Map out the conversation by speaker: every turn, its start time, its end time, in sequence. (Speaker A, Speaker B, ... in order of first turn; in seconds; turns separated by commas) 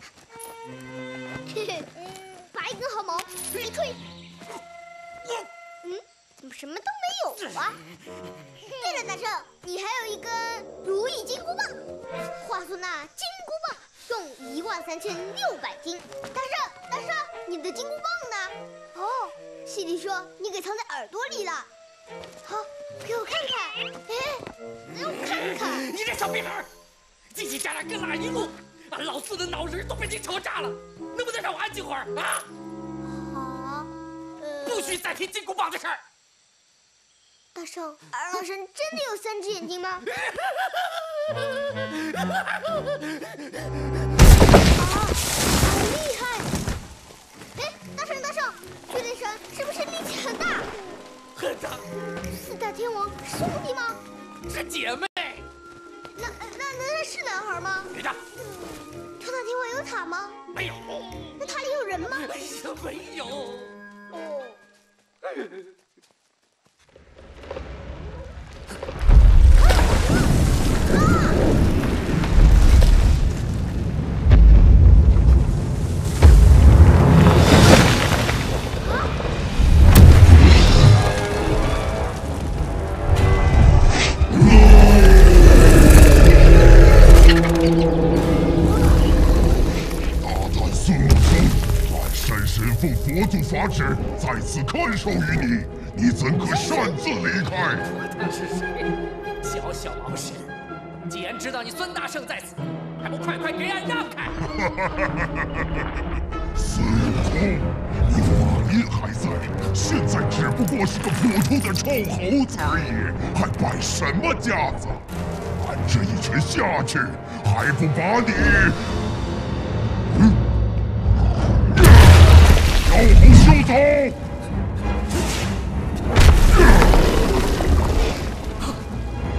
Speaker A: 1.5-4.0, Speaker A: 5.8-7.8, Speaker A: 8.6-11.8, Speaker A: 12.4-21.7, Speaker A: 22.4-25.9, Speaker B: 25.7-26.7, Speaker B: 27.3-32.5, Speaker A: 33.1-35.0, Speaker B: 34.7-36.0, Speaker A: 37.5-40.0, Speaker A: 44.8-46.5, Speaker A: 47.6-50.7, Speaker B: 51.4-51.9, Speaker A: 52.2-54.0, Speaker B: 54.5-55.5, Speaker A: 56.2-57.9, Speaker B: 58.0-58.2, Speaker A: 59.2-60.4, Speaker B: 60.6-60.9, Speaker A: 61.4-62.4, Speaker B: 62.2-63.8, Speaker A: 64.1-64.6, Speaker A: 70.8-71.4, Speaker A: 88.7-89.2, Speaker C: 90.2-97.9, Speaker B: 97.9-100.5, Speaker B: 101.1-104.5, Speaker C: 104.8-105.4, Speaker C: 106.5-115.0, Speaker C: 115.6-118.9, Speaker C: 122.8-124.2